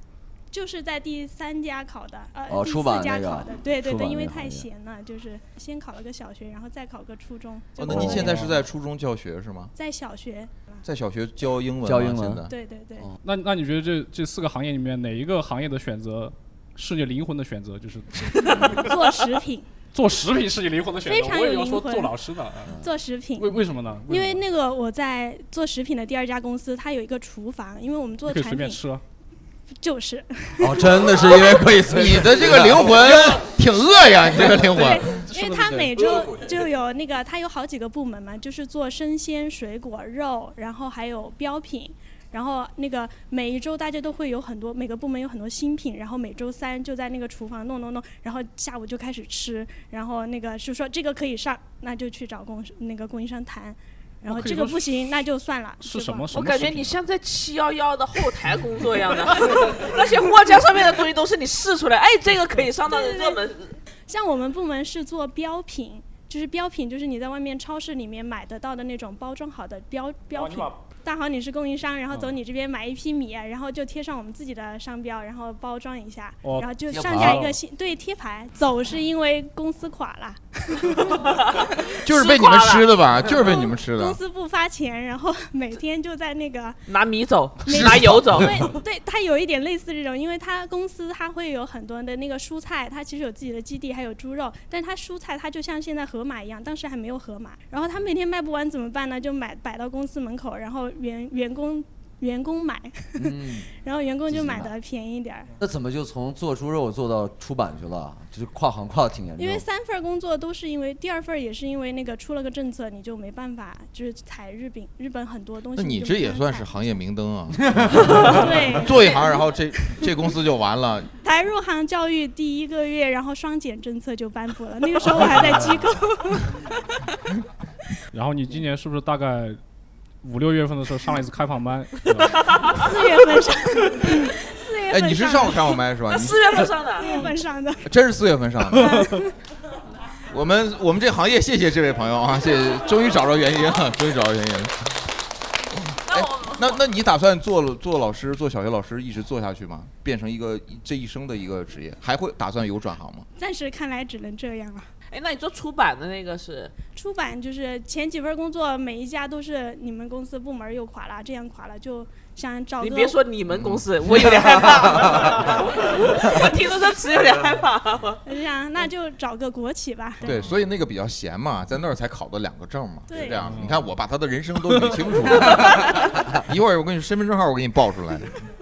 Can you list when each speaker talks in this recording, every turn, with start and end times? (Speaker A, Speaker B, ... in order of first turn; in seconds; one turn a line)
Speaker A: 0.5-8.3
Speaker B: 2.5-4.7
Speaker C: 7.8-9.7
Speaker B: 7.9-8.4
Speaker D: 8.1-8.6
Speaker A: 9.8-10.8
Speaker C: 10.8-12.5
Speaker B: 11.8-12.4
Speaker A: 12.5-13.1
Speaker D: 13.2-18.9
Speaker A: 18.7-19.7
Speaker D: 19.9-22.8
Speaker A: 21.0-22.1
Speaker A: 22.8-28.8
Speaker D: 23.4-24.4
Speaker D: 28.3-29.0
Speaker A: 29.8-31.6
Speaker B: 30.6-33.5
Speaker C: 31.9-35.2
Speaker A: 34.7-56.3
Speaker D: 35.2-36.3
Speaker D: 54.2-55.0
Speaker D: 55.8-57.0
Speaker E: 56.3-63.7
Speaker A: 62.9-63.4
Speaker A: 64.1-81.3
Speaker D: 70.3-70.8
Speaker D: 76.4-77.5
Speaker B: 76.9-77.5
Speaker C: 82.0-84.2
Speaker E: 82.0-83.0
Speaker A: 83.4-86.8
Speaker E: 86.9-88.5
Speaker A: 87.6-105.5
Speaker C: 87.7-88.7
Speaker B: 103.2-103.7
Speaker B: 104.3-104.7
Speaker B: 105.6-109.6
Speaker A: 109.4-116.7
Speaker C: 115.8-121.1
Speaker B: 117.8-118.1
Speaker A: 118.2-120.0
Speaker A: 121.2-126.5
Speaker D: 125.3-125.8
Speaker D: 128.1-129.6
Speaker D: 130.2-132.7
Speaker E: 132.4-132.7
Speaker A: 132.7-135.8
Speaker C: 134.9-136.7
Speaker E: 136.1-137.3
Speaker A: 137.0-137.8
Speaker C: 137.8-139.2
Speaker A: 138.7-139.3
Speaker C: 140.3-144.9
Speaker C: 145.7-153.2
Speaker E: 146.1-146.8
Speaker A: 153.3-154.9
Speaker E: 155.1-156.7
Speaker A: 156.9-163.2
Speaker E: 162.8-168.2
Speaker C: 163.5-163.8
Speaker B: 164.7-165.2
Speaker A: 168.2-170.4
Speaker C: 170.2-178.3
Speaker A: 173.1-173.4
Speaker D: 173.4-173.8